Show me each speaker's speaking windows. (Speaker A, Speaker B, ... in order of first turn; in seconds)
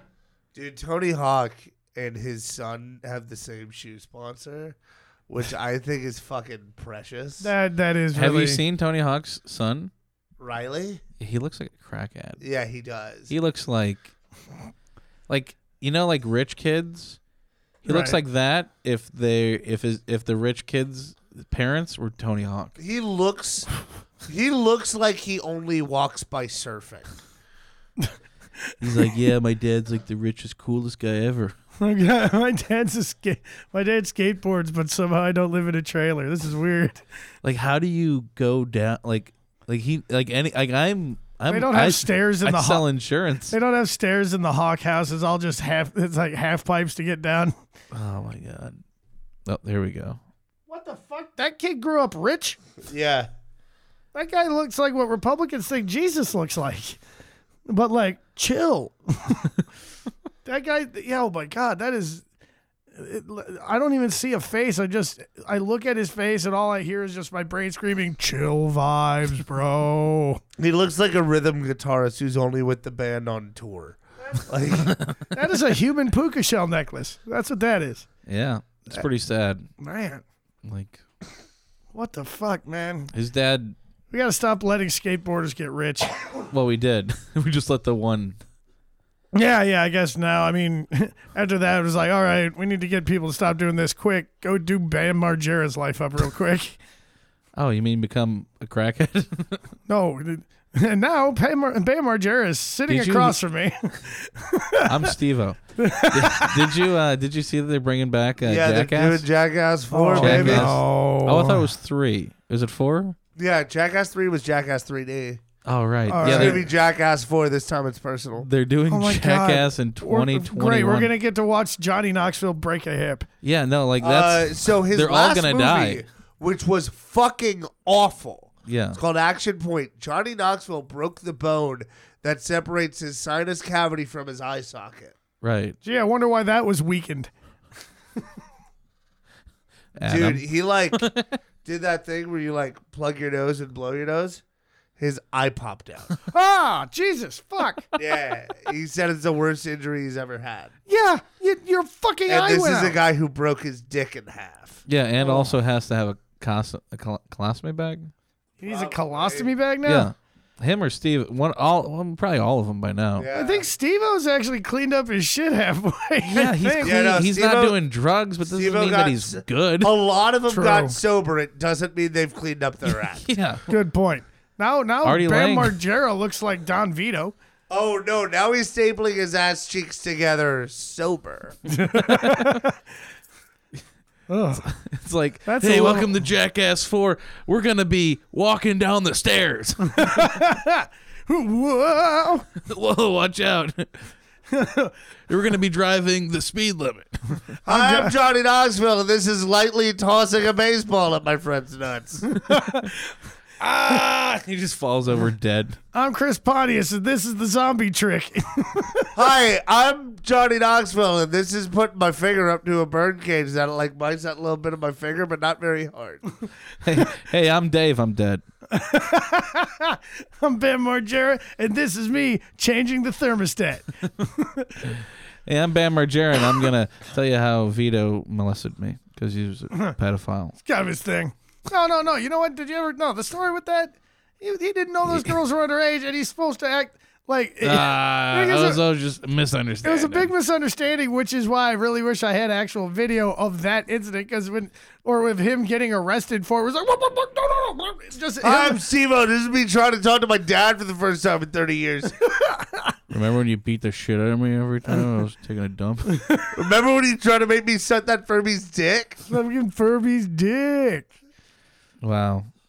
Speaker A: 0.6-4.8, 5.3-7.5, 10.4-11.0, 12.4-13.3, 22.8-23.7, 24.3-27.1, 52.8-53.3, 70.6-75.0, 108.4-110.8, 113.4-115.4, 116.2-118.5, 124.0-135.2, 140.0-141.0, 141.6-144.4, 145.0-146.2, 147.9-150.7, 152.3-154.8, 158.7-159.6, 163.2-163.7, 166.8-167.8, 168.4-173.2, 177.7-181.6, 197.7-202.2, 209.2-216.2, 248.4-252.2, 256.6-259.2
Speaker B: 7.4-8.6, 17.9-18.2, 31.8-37.0, 41.5-42.9, 43.5-47.5, 50.7-52.6, 54.1-57.0, 57.7-59.5, 60.5-62.2, 62.9-70.4, 75.3-78.1, 79.8-80.2, 81.9-83.1, 84.1-86.1, 89.3-96.8, 99.9-105.1, 105.8-106.8, 109.9-111.7, 116.1-116.6, 118.9-123.3, 135.8-137.3, 146.2-147.9, 150.9-153.0, 155.2-155.5, 158.6-160.1, 163.3-167.0, 170.5-170.9, 173.7-177.3, 181.7-182.8, 184.3-184.6, 185.5-186.2, 189.9-192.5, 194.5-194.9, 197.7-198.1, 202.3-203.0, 205.9-209.2, 218.7-225.0, 230.6-238.8, 239.8-248.8, 252.4-252.9, 256.1-256.6, 259.3-261.1
Speaker C: 8.2-9.9, 11.2-12.4, 13.3-14.1, 15.3-17.2, 17.9-22.8, 28.8-31.6, 37.4-43.6, 47.9-48.8, 49.5-50.2, 74.9-75.2, 78.3-79.7, 80.6-81.0, 83.1-83.8, 86.5-88.4, 97.6-99.6, 102.9-103.4, 104.8-109.2, 110.2-113.2, 115.7-116.6, 118.4-121.1, 123.4-126.0, 128.7-129.0, 135.4-135.8, 140.0-141.2, 154.9-158.1, 159.8-163.3, 166.3-169.9, 173.2-173.7, 175.0-175.7, 182.0-182.6, 184.6-190.3, 192.6-194.1, 195.3-197.2, 202.5-202.9, 203.6-205.8, 216.8-218.4, 225.5-230.6, 235.1-235.4, 237.6-240.3, 253.1-256.2, 262.0-262.5